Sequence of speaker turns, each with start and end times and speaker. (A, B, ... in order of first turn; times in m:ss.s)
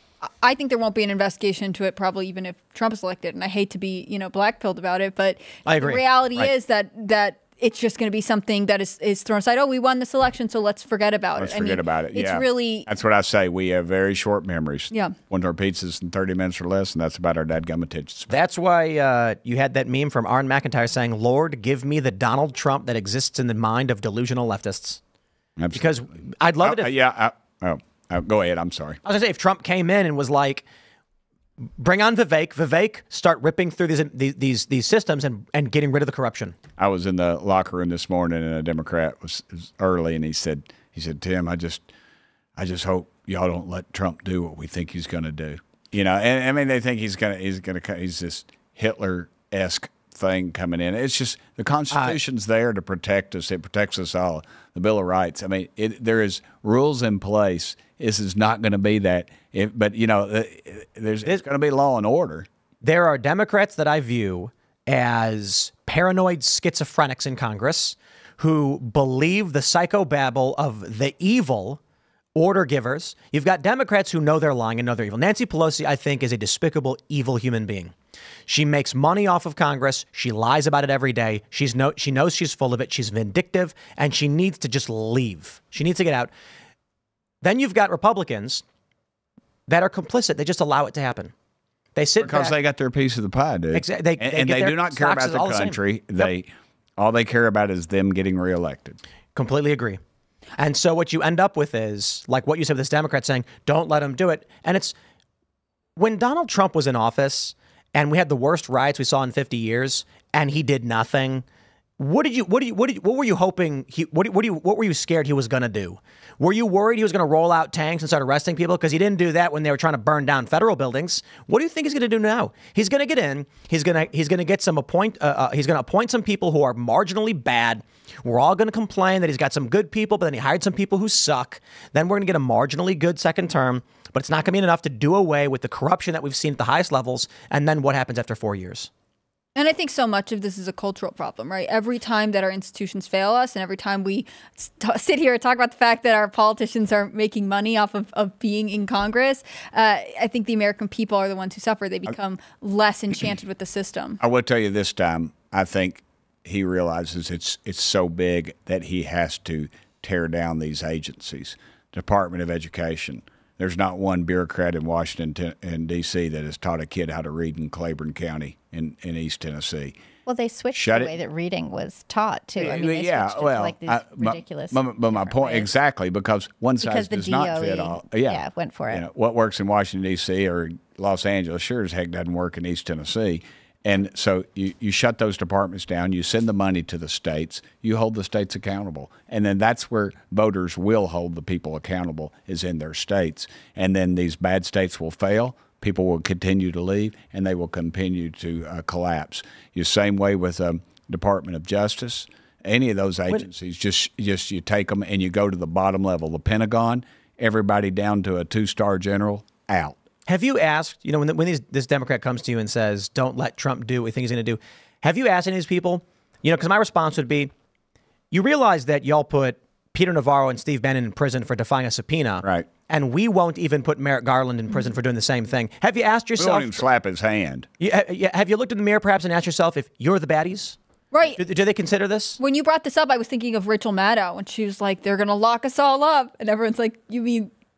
0:00.2-0:12.9 A
0:05.6-0:06.5 B
0:11.4-0:18.3 C
0:18.3-0:25.0 B
0:25.6-0:29.0 C
0:25.7-0:26.9 B
0:29.0-0:30.6 B
0:31.8-0:36.6 B
0:36.8-0:41.9 C
0:42.6-1:02.5 C
0:51.9-0:52.2 B
1:02.8-1:11.8 B
1:12.3-1:17.9 B
1:18.5-1:26.3 B
1:27.4-1:28.6 B
1:29.7-1:31.3 B
1:31.9-1:32.6 B
1:32.2-1:39.0 C
1:33.7-1:36.3 B
1:39.3-1:40.0 B
1:40.6-1:44.9 B
1:46.0-1:51.4 B
1:52.0-2:18.9 B
2:19.5-2:34.2 A
2:34.2-2:50.0 C
2:50.2-2:55.7 D
2:50.7-2:51.1 C
2:52.6-3:30.0 C
2:56.8-2:59.0 D
3:30.3-3:37.5 B
3:38.3-3:46.8 B
3:46.4-3:47.7 C
3:47.8-3:50.8 B
3:51.1-3:51.4 A
3:51.3-3:52.4 B
3:52.4-3:57.5 A